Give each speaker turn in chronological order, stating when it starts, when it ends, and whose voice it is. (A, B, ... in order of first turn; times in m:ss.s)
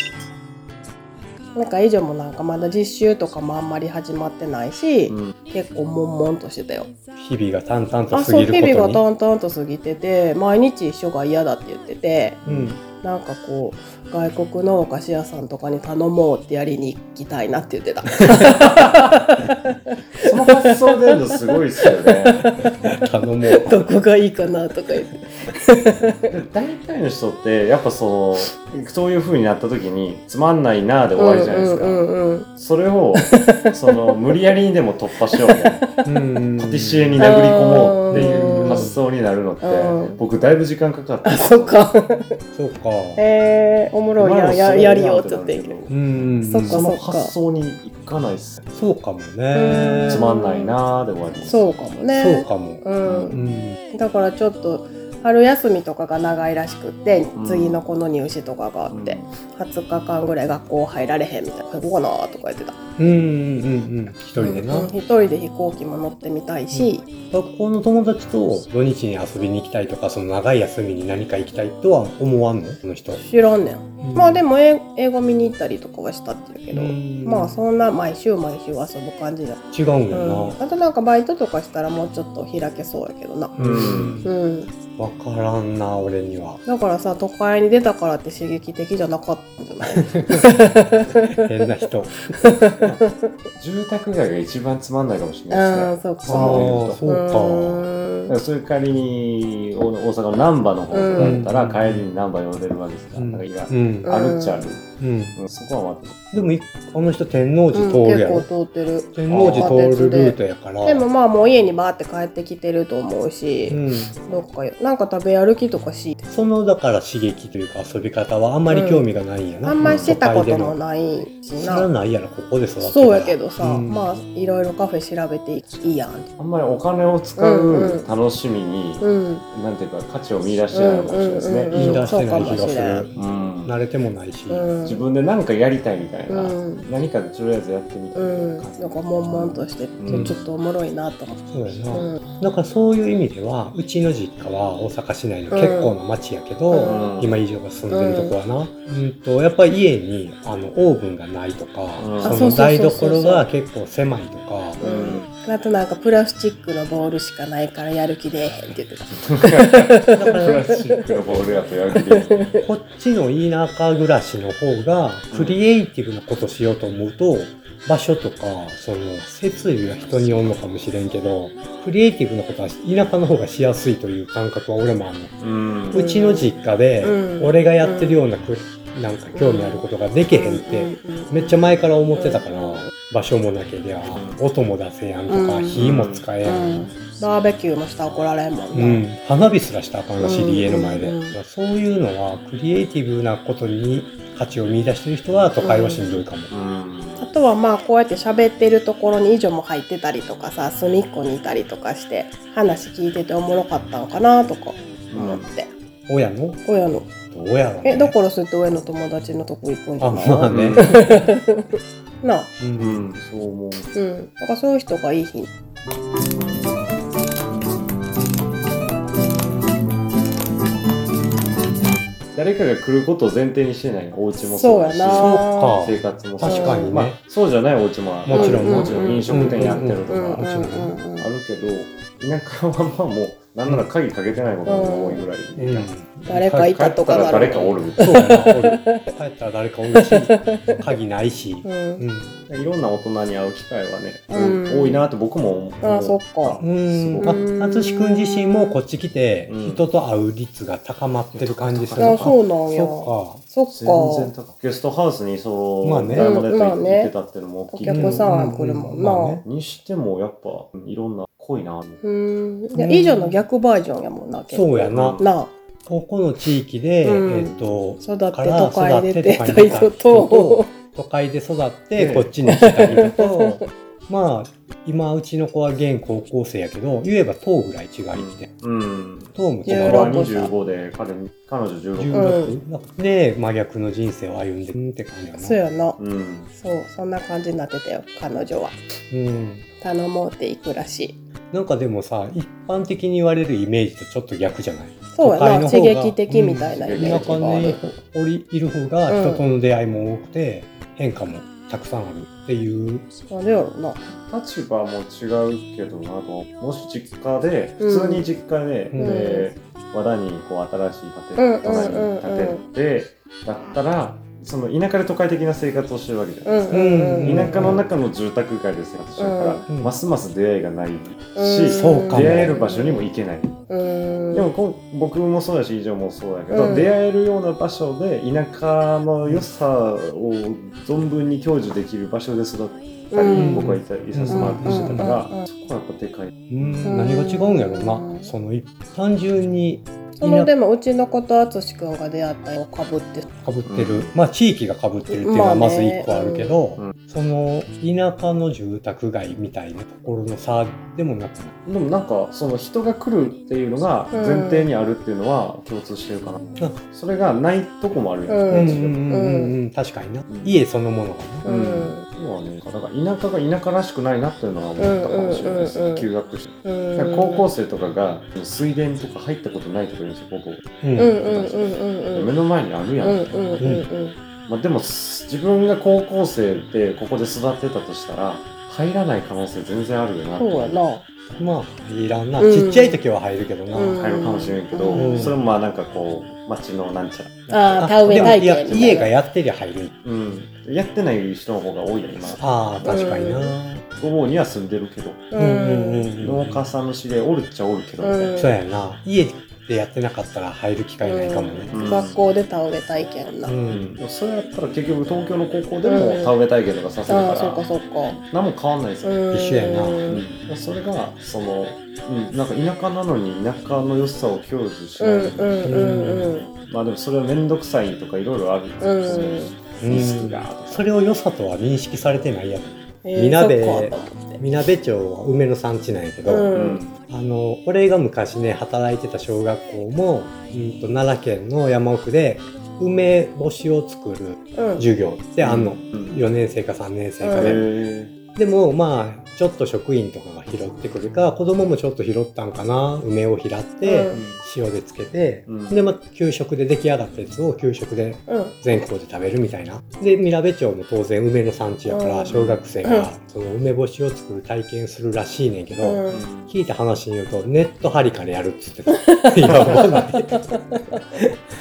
0:01.5-0:06.9 A
0:05.1-0:05.3 B
0:07.2-0:09.0 C
0:08.1-0:12.4 A
0:12.4-0:12.7 B
0:12.4-0:12.8 C
0:13.0-0:26.3 A
0:18.6-0:18.9 B
0:20.2-0:22.4 B
0:22.8-0:23.7 C
0:26.3-0:35.8 B
0:31.2-0:32.5 A
0:33.2-0:34.2 A
0:35.3-0:36.1 A
0:36.0-0:37.2 C
0:36.6-0:41.8 B
0:37.2-0:38.9 A
0:38.1-0:39.0 C
0:39.6-0:40.2 A
0:41.2-0:42.4 A
0:42.5-0:43.2 C
0:43.2-0:45.8 A
0:44.2-0:46.0 B
0:45.9-0:46.8 C
0:46.4-0:47.3 A
0:46.6-0:48.6 B
0:48.7-0:50.2 C
0:49.5-0:50.7 A
0:50.1-0:51.6 B
0:51.4-1:02.8 A
0:52.1-0:53.8 C
0:53.0-0:53.4 B
0:57.3-0:57.8 B
0:58.9-0:59.3 B
1:03.0-1:04.9 C
1:04.4-1:07.1 A
1:06.7-1:13.2 C
1:13.2-1:23.6 A
1:14.0-1:14.4 C
1:16.7-1:17.6 C
1:19.7-1:20.6 C
1:23.5-1:24.3 C
1:23.6-1:24.2 B
1:24.2-1:24.7 A
1:25.0-1:26.6 C
1:26.6-1:31.5 A
1:29.9-1:30.5 C
1:31.3-1:32.3 C
1:32.3-1:33.3 A
1:33.6-1:37.0 B
1:35.5-1:38.3 A
1:36.2-1:37.8 C
1:38.3-1:46.5 B
1:40.9-1:41.4 A
1:41.2-1:42.0 C
1:43.2-1:44.1 C
1:44.0-1:44.6 A
1:45.0-1:45.4 C
1:46.3-1:48.5 C
1:47.7-1:56.2 A
1:49.1-1:51.0 C
1:49.3-1:49.8 B
1:53.7-1:54.2 C
1:56.3-2:00.8 C
1:58.7-1:59.0 A
1:59.6-2:01.9 A
1:59.8-2:00.1 B
2:01.6-2:04.1 C
2:02.8-2:06.3 A
2:06.4-2:12.6 B
2:07.4-2:08.1 A
2:09.0-2:09.4 A
2:10.7-2:13.0 A
2:11.7-2:14.6 C
2:13.1-2:13.7 B
2:14.5-2:15.0 A
2:14.8-2:20.4 B
2:16.3-2:16.8 A
2:18.1-2:22.2 A
2:20.1-2:20.4 C
2:21.5-2:34.8 C
2:25.5-2:25.9 A
2:26.7-2:27.0 A
2:26.8-2:27.4 B
2:27.9-2:28.4 A
2:32.0-2:32.5 B
2:32.2-2:33.4 A
2:34.8-2:41.2 A
2:34.8-2:35.3 B
2:39.2-2:42.5 B
2:40.1-2:40.7 C
2:41.9-2:42.6 A
2:42.6-2:55.4 C
2:45.3-2:45.6 B
2:55.4-2:56.0 B
2:55.9-3:06.9 C
2:55.9-2:56.5 A
2:57.0-2:58.2 A
2:59.4-3:01.6 A
3:02.1-3:02.9 A
3:04.1-3:04.4 B
3:05.3-3:05.9 A
3:05.7-3:06.2 B
3:06.4-3:09.0 A
3:08.7-3:16.5 C
3:10.2-3:11.4 A
3:15.6-3:16.2 A
3:16.5-3:17.3 B
3:17.2-3:25.7 A
3:25.1-3:25.5 B
3:26.1-3:26.6 C
3:26.6-3:27.1 A
3:27.3-3:28.1 C
3:27.8-3:32.5 A
3:30.0-3:31.3 C
3:30.5-3:30.9 B
3:32.6-3:33.0 C
3:32.8-3:33.9 B
3:33.9-3:35.5 A
3:42.3-3:50.5 B
3:44.6-3:45.8 A
3:45.1-3:47.2 C
3:46.4-3:47.0 A
3:48.3-3:50.9 C
3:48.3-3:51.3 A
3:51.2-3:55.9 B
3:54.6-3:55.2 A
3:55.6-3:56.7 C
3:56.3-3:59.1 A
3:56.5-3:58.3 B
3:58.0-4:02.3 C
3:59.9-4:00.9 A
4:01.6-4:02.0 A
4:02.5-4:07.4 B
4:04.3-4:05.0 A
4:05.8-4:06.6 A
4:06.6-4:13.4 C
4:07.2-4:08.8 A
4:09.5-4:09.8 B
4:11.3-4:12.4 B
4:12.0-4:14.3 A
4:13.7-4:18.3 B
4:15.8-4:16.3 C
4:16.2-4:17.1 A
4:17.7-4:19.4 A
4:17.9-4:19.4 C
4:19.4-4:22.0 B
4:22.0-4:25.5 A
4:22.7-4:23.4 C
4:24.5-4:25.2 C
4:24.8-4:25.3 B
4:25.8-4:38.5 C
4:27.0-4:30.7 A
4:32.0-4:32.4 B
4:32.5-4:33.6 A
4:38.1-4:42.4 B
4:39.3-4:40.2 C
4:39.6-4:40.5 A
4:42.0-4:45.6 C
4:42.1-4:42.6 A
4:45.4-4:46.0 A
4:46.0-4:46.5 B
4:46.5-4:48.8 A
4:49.1-4:49.6 C
4:49.8-4:51.2 A
4:51.5-5:03.0 C
4:55.1-4:57.8 A
4:56.7-4:57.8 B
4:59.1-4:59.4 A
5:03.3-5:04.0 A
5:04.3-5:23.6 B
5:07.8-5:08.3 A
5:08.9-5:09.2 C
5:09.0-5:09.5 A
5:11.4-5:12.6 A
5:16.4-5:17.8 A
5:16.7-5:17.8 C
5:19.2-5:19.6 A
5:19.7-5:19.9 C
5:21.4-5:23.1 A
5:21.6-5:22.6 C
5:23.7-5:24.5 A
5:24.3-5:36.8 B
5:26.5-5:26.9 A
5:33.1-5:33.7 A
5:33.3-5:35.1 C
5:34.3-5:35.5 A
5:36.5-5:40.5 C
5:36.8-5:38.3 A
5:40.2-5:43.3 A
5:43.4-5:51.6 C
5:43.6-5:44.1 B
5:45.1-5:46.6 A
5:51.6-5:59.1 B
5:54.1-5:54.7 A
5:58.3-5:59.5 A
5:58.5-6:01.4 C
6:00.2-6:00.5 B
6:01.4-6:13.6 B
6:01.4-6:02.0 A
6:04.8-6:06.1 A
6:06.6-6:07.5 A
6:10.8-6:11.1 C
6:11.0-6:12.3 A
6:13.0-6:14.2 A
6:13.6-6:13.8 C
6:14.5-6:20.8 B
6:20.4-6:21.0 A
6:21.4-6:24.0 C
6:22.4-6:23.0 A
6:23.7-6:25.3 A
6:23.9-6:29.0 B
6:24.9-6:25.4 C
6:27.5-6:29.1 A
6:27.8-6:29.9 C
6:30.0-6:33.0 B
6:32.3-6:33.8 C
6:32.9-6:33.5 A
6:34.0-6:35.2 B
6:35.3-6:36.1 A
6:35.4-6:36.6 C
6:36.2-6:38.4 B
6:38.0-6:38.5 A
6:38.4-6:41.7 C
6:41.0-6:43.5 A
6:41.7-6:42.2 B
6:43.4-6:43.9 C
6:43.7-6:47.7 B
6:45.8-6:46.3 A
6:47.1-6:48.2 A
6:48.2-6:49.2 B
6:49.0-6:50.2 A
6:49.3-6:50.1 C
6:50.1-6:55.8 B
6:55.0-6:56.5 A
6:55.6-6:56.3 C
6:56.5-7:00.8 B
6:58.8-6:59.6 A
6:59.8-7:06.5 C
7:03.0-7:04.4 A
7:06.2-7:06.8 A
7:06.5-7:06.9 B
7:07.1-7:17.7 C
7:14.5-7:14.8 A
7:15.4-7:16.1 B
7:17.2-7:17.6 A
7:17.4-7:18.1 B
7:18.3-7:40.5 C
7:23.8-7:24.2 A
7:24.1-7:24.4 B
7:25.5-7:25.8 B
7:28.3-7:28.6 A
7:31.9-7:33.1 A
7:32.3-7:32.6 B
7:35.8-7:36.2 A
7:36.1-7:36.5 B
7:38.9-7:40.8 A